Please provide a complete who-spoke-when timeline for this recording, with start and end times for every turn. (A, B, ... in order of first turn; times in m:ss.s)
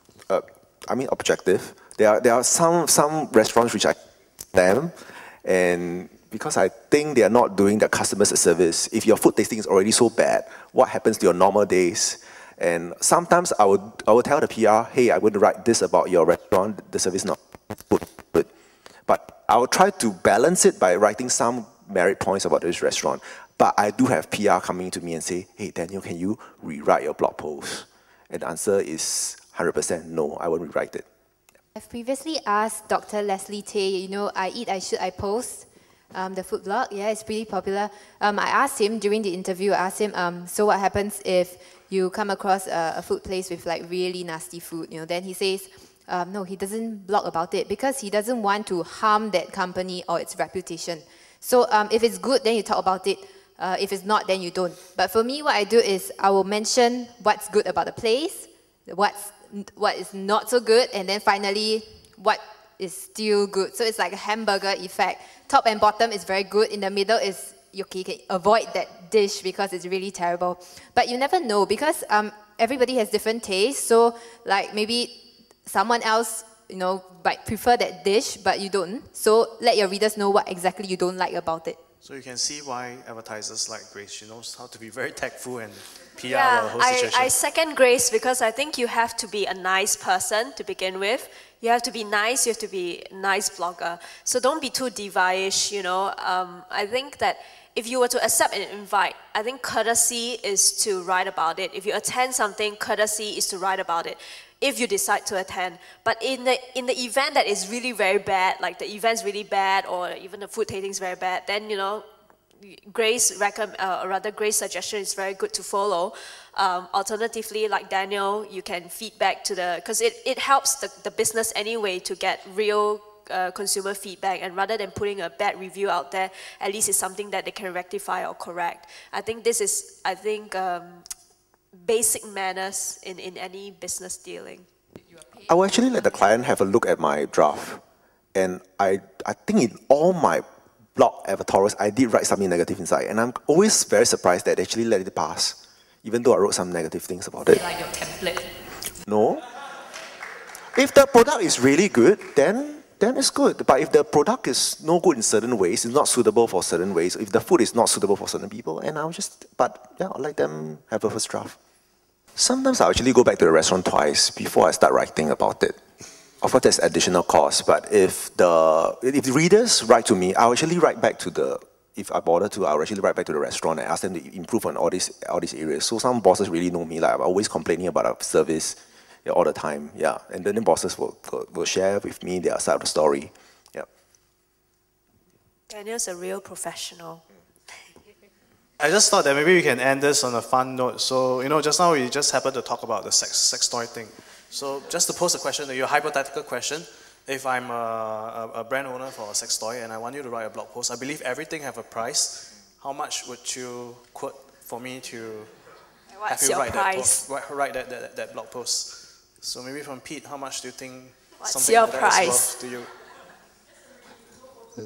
0:00.3-0:04.0 A
0:04.5-0:18.5 A
0:19.1-0:31.0 A
0:31.7-1:15.1 B
1:15.6-1:21.8 B
1:22.0-1:27.3 C
1:26.2-1:52.0 D
1:52.6-2:11.1 D
2:11.7-2:14.7 D
2:15.4-2:17.8 A
2:18.3-2:20.4 A
2:21.0-2:27.8 A
2:29.0-2:29.4 A
2:30.7-2:41.6 A
2:42.4-2:45.8 A
2:46.4-3:03.9 A
3:05.7-3:07.2 D
3:08.8-3:25.5 C
3:26.1-3:27.2 D
3:26.3-3:32.9 C
3:31.4-3:32.5 D